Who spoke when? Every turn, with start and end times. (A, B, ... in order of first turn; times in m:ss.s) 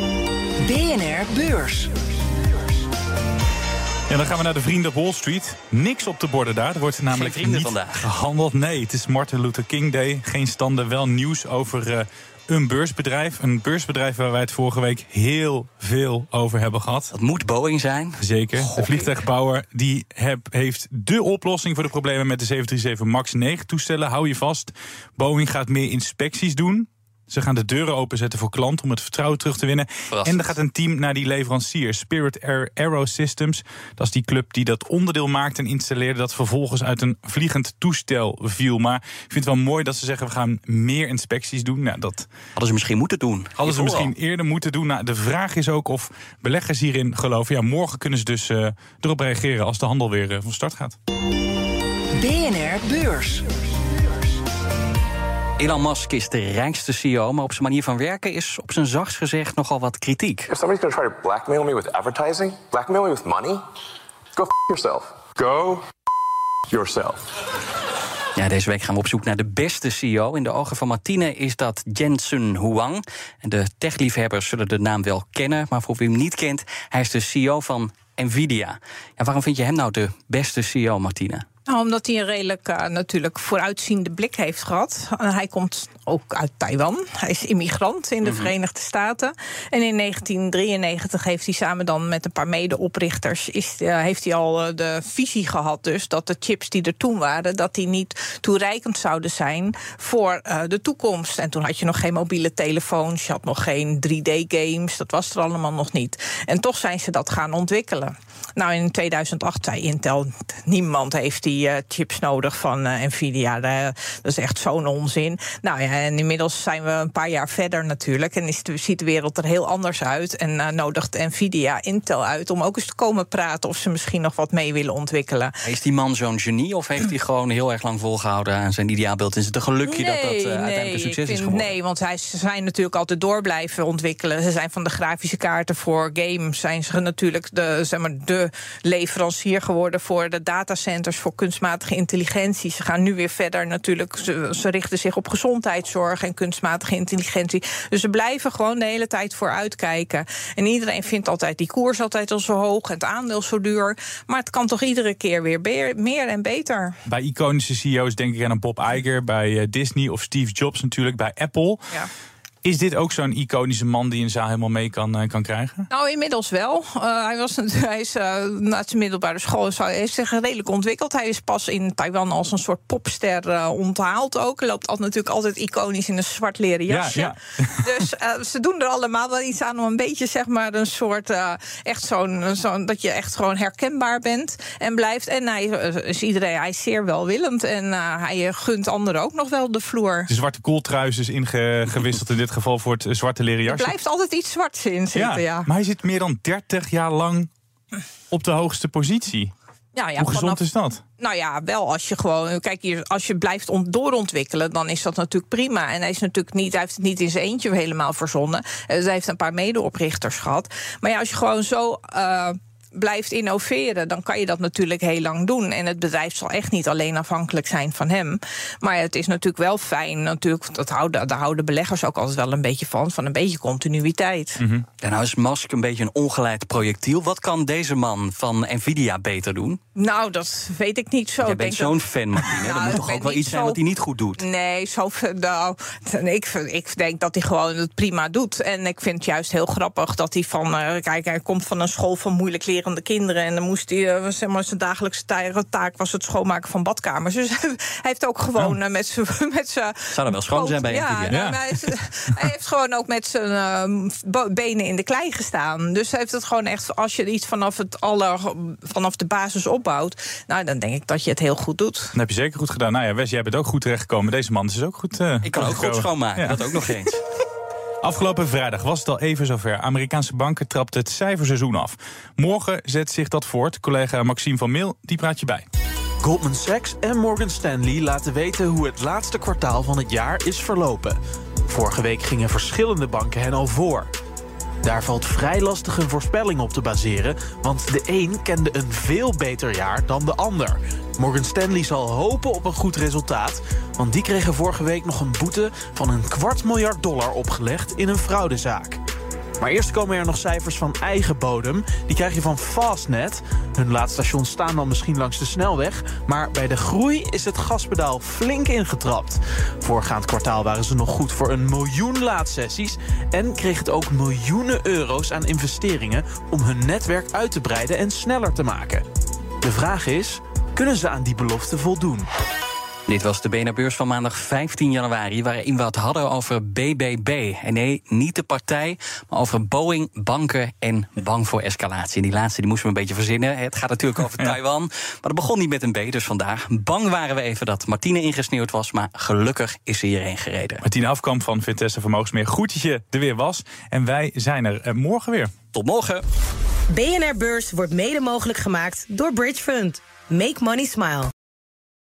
0:00.6-0:01.9 A
0:04.1-0:17.1 B
0:07.1-0:08.0 C
0:17.1-0:19.1 C
0:18.2-0:42.3 B
0:30.1-0:30.5 C
0:42.5-0:44.1 C
0:43.6-0:50.9 B
0:52.2-0:53.4 A
0:55.6-1:00.5 C
1:00.5-1:03.6 D
1:04.4-1:05.8 D
1:06.7-1:07.2 D
1:08.4-1:21.4 C
1:21.7-2:05.5 E
1:28.2-1:28.5 C
2:05.6-2:11.7 C
2:09.8-2:36.9 E
2:37.1-2:41.9 B
2:42.6-2:45.9 B
2:45.9-3:10.3 E
2:56.9-2:57.9 B
3:10.3-3:13.9 B
3:13.7-3:15.7 E
3:15.1-3:17.5 B
3:18.3-3:19.5 B
3:20.0-3:20.6 E
3:20.2-3:21.0 B
3:21.2-3:44.6 E
3:44.6-3:44.8 B
3:45.0-3:49.8 C
3:50.0-3:53.8 E
3:51.4-3:54.4 C
3:54.4-4:22.1 E
4:10.1-4:11.4 C
4:11.3-4:11.9 B
4:22.1-4:27.1 B
4:25.4-4:27.2 C
4:28.0-4:35.6 B
4:36.2-4:41.2 F
4:41.7-4:44.1 F
4:44.8-4:59.0 F
4:59.6-5:19.0 F
5:19.6-5:22.3 F
5:23.1-5:40.8 C
5:40.8-5:45.5 B
5:45.7-5:46.2 C
5:46.9-5:51.3 G